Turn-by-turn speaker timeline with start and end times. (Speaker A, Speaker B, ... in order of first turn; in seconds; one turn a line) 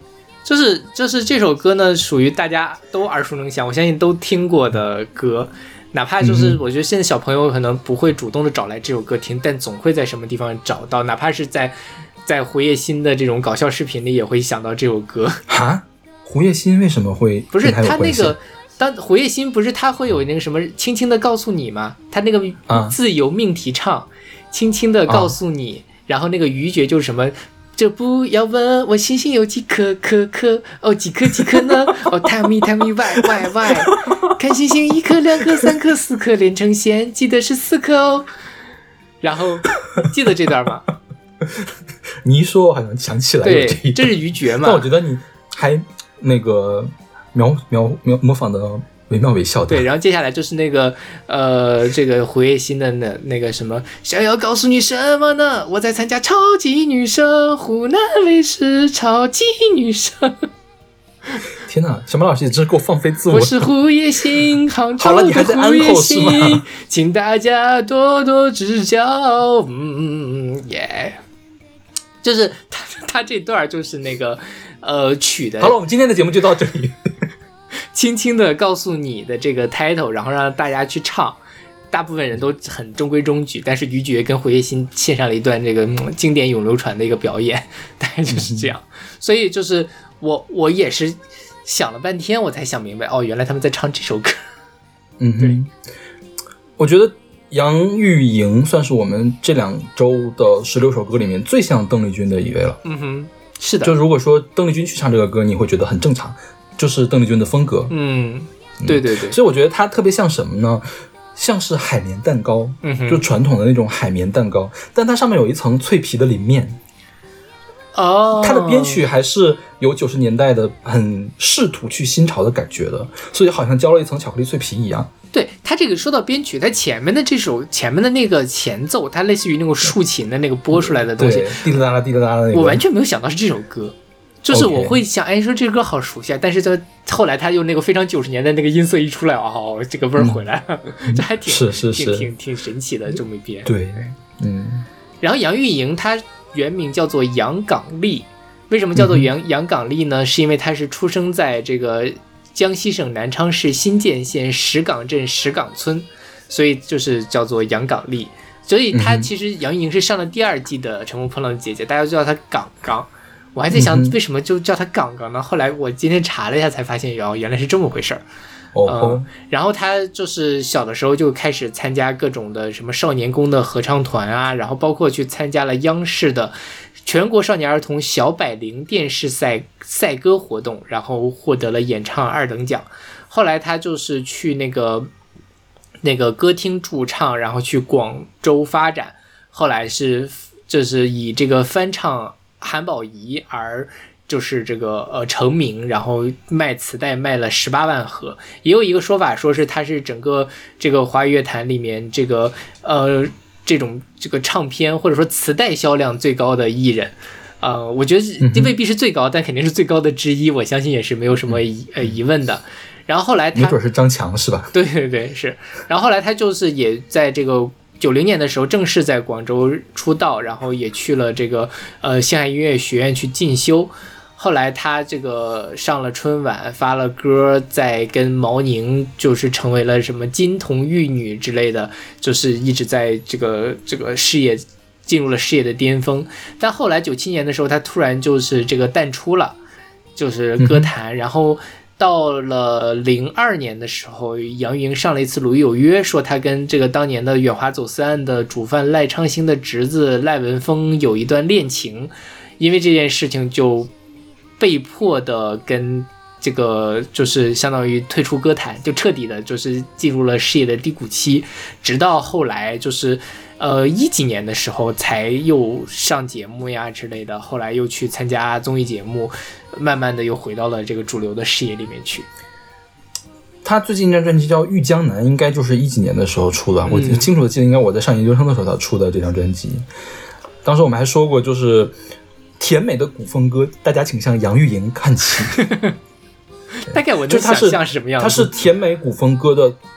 Speaker A: 0.4-15.4
Speaker B: 6.2-6.6
Speaker B: 15.5-18.4
Speaker A: 17.5-38.3
Speaker B: 22.7-22.9
Speaker B: 25.1-25.3
Speaker A: 39.2-40.9
Speaker B: 41.4-41.7
Speaker B: 42.2-49.8
Speaker A: 43.4-44.9
Speaker A: 49.7-60.4
Speaker B: 61.7-63.7
Speaker A: 63.3-71.2
Speaker B: 65.0-66.6
Speaker A: 72.2-75.7
Speaker B: 75.6-77.1
Speaker A: 77.9-81.4
Speaker A: 81.9-94.4
Speaker B: 88.3-88.7
Speaker B: 95.2-95.7
Speaker B: 96.8-102.8
Speaker A: 102.8-104.0
Speaker B: 103.8-107.9
Speaker A: 107.9-109.4
Speaker B: 108.8-116.8
Speaker A: 112.8-113.2
Speaker A: 117.9-119.0
Speaker B: 118.3-125.1
Speaker A: 125.3-131.6
Speaker B: 130.7-132.8
Speaker A: 132.5-144.1
Speaker B: 134.5-135.0
Speaker B: 141.1-142.3
Speaker B: 143.6-144.8
Speaker A: 145.2-168.2
Speaker B: 148.9-149.3
Speaker B: 158.9-159.3
Speaker B: 163.7-164.1
Speaker B: 168.7-169.3
Speaker A: 168.9-185.1
Speaker A: 186.0-213.8
Speaker B: 208.4-208.7
Speaker B: 213.5-214.7
Speaker A: 214.7-239.6
Speaker A: 240.2-253.9
Speaker B: 240.6-240.9
Speaker A: 254.6-272.3
Speaker B: 273.6-279.9
Speaker A: 276.9-277.3
Speaker B: 280.6-281.9
Speaker B: 282.6-285.6
Speaker A: 285.6-285.9
Speaker A: 286.7-288.5
Speaker B: 286.9-289.8